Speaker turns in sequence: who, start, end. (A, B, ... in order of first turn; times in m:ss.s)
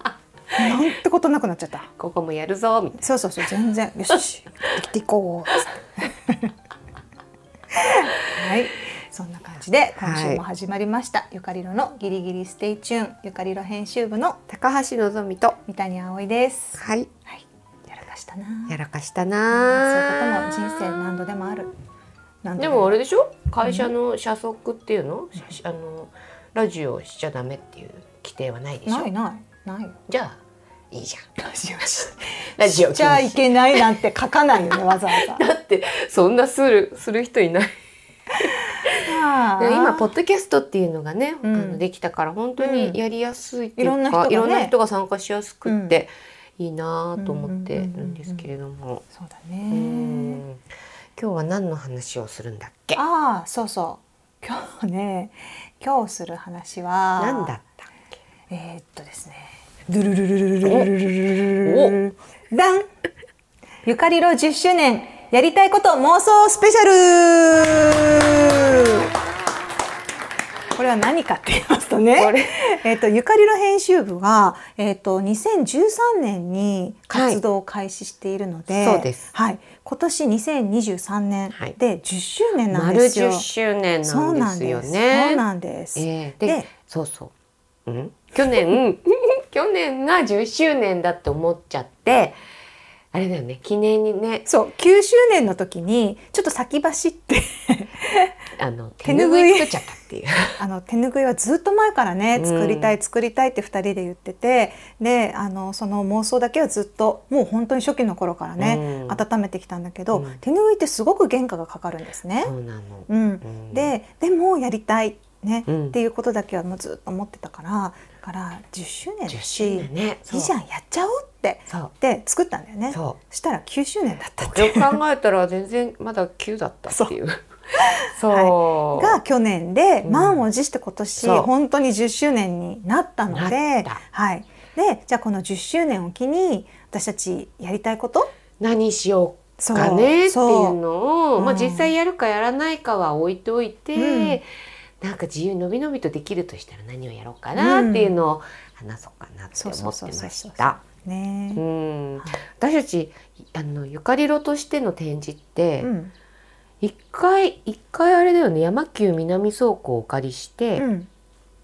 0:00.6-0:01.9 A
0:02.0-0:03.1 B
0:03.0-0:06.5 A
0:07.8-0:14.4 A
0:10.0-0:10.4 B
0:14.5-0:15.6 B
0:15.6-0:18.8 A
0:16.8-0:17.1 B
0:18.7-0:20.7 B
0:19.5-0:21.7 A
0:22.4-0:23.0 A
0:22.6-0:29.1 B
0:23.6-0:23.9 A
0:28.8-0:30.0 A
0:30.1-0:30.4 B
0:30.9-0:31.2 B
0:31.4-0:35.4 A
0:32.6-0:33.8 B
0:34.7-0:37.7 B
0:38.3-0:49.0 B
0:39.0-0:40.1 A
0:41.4-0:41.8 A
0:42.6-0:43.0 A
0:43.8-0:44.7 A
0:45.6-0:45.9 A
0:47.2-0:48.4 A
0:49.1-0:50.4 A
0:49.7-0:50.6 B
0:51.2-0:53.0 B
0:52.9-0:57.5 A
0:57.2-0:57.8 B
0:58.5-1:02.9 A
1:00.6-1:00.9 B
1:01.6-1:02.0 B
1:03.8-1:09.1 A
1:10.8-1:23.4 A
1:12.2-1:12.6 B
1:17.1-1:17.4 B
1:18.8-1:19.2 B
1:22.7-1:25.4 B
1:24.0-1:26.7 A
1:26.0-1:27.3 B
1:27.8-1:32.4 B
1:33.1-1:34.4 B
1:34.4-1:38.3 A
1:38.6-1:40.6 B
1:39.0-1:39.8 A
1:40.6-1:52.5 A
1:42.4-1:42.9 B
1:48.6-1:49.2 B
1:50.1-1:50.4 B
1:52.4-1:53.9 B
1:53.1-2:05.0 A
1:55.7-1:55.9 B
1:59.3-2:00.5 B
2:02.9-2:03.2 B
2:04.4-2:07.4 B
2:08.0-2:18.3 A
2:08.0-2:09.2 B
2:10.0-2:10.4 B
2:11.2-2:11.5 B
2:13.3-2:14.0 B
2:18.6-2:24.5 B
2:19.6-2:20.8 A
2:21.4-2:21.9 A
2:23.9-2:24.4 A
2:25.0-2:30.8 B
2:27.6-2:28.1 A
2:29.5-2:31.6 A
2:31.5-2:35.9 B
2:35.8-2:36.1 A
2:36.8-2:40.8 B
2:40.8-2:41.1 A